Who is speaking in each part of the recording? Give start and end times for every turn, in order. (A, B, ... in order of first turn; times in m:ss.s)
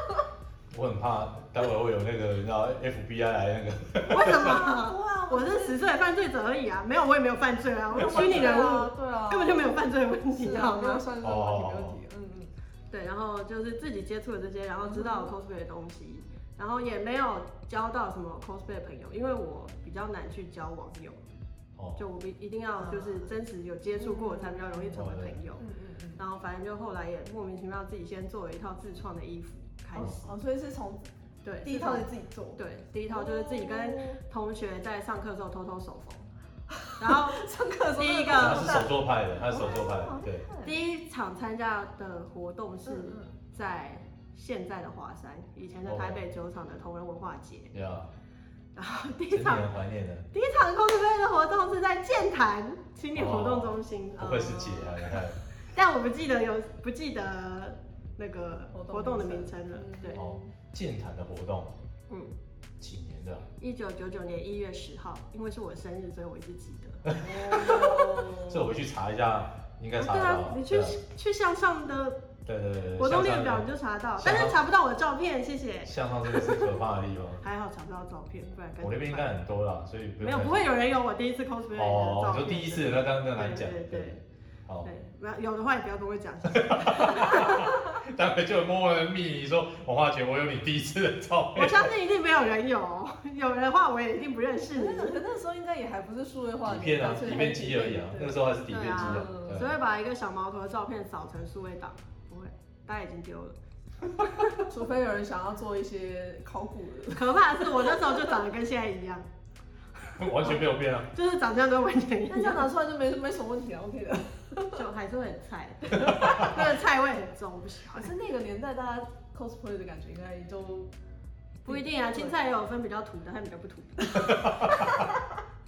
0:00.7-0:04.6 A
0:04.1-0:11.0 B
0:04.2-0:05.8 C
0:07.9-0:12.5 C
0:11.2-0:12.0 A
0:12.9-0:21.2 B
0:14.8-0:15.3 C
0:22.0-0:25.6 B
0:22.8-0:23.2 C
0:24.0-0:24.9 C
0:24.9-0:25.4 A
0:25.6-0:26.2 C
0:26.2-0:30.3 B
0:30.0-0:31.1 C
0:31.4-0:36.3 B
0:31.6-0:34.2 C
0:36.7-0:40.7 C
0:37.0-0:37.4 B
0:38.0-0:38.9 B
0:38.3-0:40.5 A
0:40.6-0:47.7 B
0:42.9-0:43.3 C
0:45.8-0:46.2 A
0:47.7-0:48.1 A
0:48.8-0:49.7 B
0:49.3-0:50.3 A
0:50.3-0:55.2 B
0:53.1-0:55.4 A
0:55.7-1:00.2 B
0:58.7-1:00.5 C
1:00.1-1:01.8 A
1:02.1-1:02.4 B
1:02.8-1:03.4 A
1:03.6-1:08.0 B
1:07.0-1:11.0 A
1:07.2-1:08.7 C
1:10.0-1:12.2 B
1:12.4-1:13.6 A
1:13.0-1:16.6 B
1:14.2-1:14.6 A
1:15.8-1:17.4 A
1:17.4-1:19.3 B
1:18.8-1:20.7 A
1:20.2-1:24.2 B
1:21.7-1:24.1 A
1:24.7-1:24.9 A
1:24.8-1:27.7 B
1:26.5-1:31.9 A
1:31.5-1:35.2 B
1:34.7-1:38.4 C
1:36.6-1:39.7 A
1:38.7-1:43.6 B
1:38.9-1:39.6 C
1:44.2-1:44.6 B
1:44.6-1:48.3 C
1:47.1-1:49.3 B
1:50.2-1:51.1 A
1:51.1-1:52.7 B
1:52.3-1:54.8 C
1:54.7-1:58.1 B
1:56.0-1:56.6 C
1:57.9-2:00.9 C
2:01.6-2:02.4 C
2:01.6-2:04.5 B
2:04.3-2:04.9 A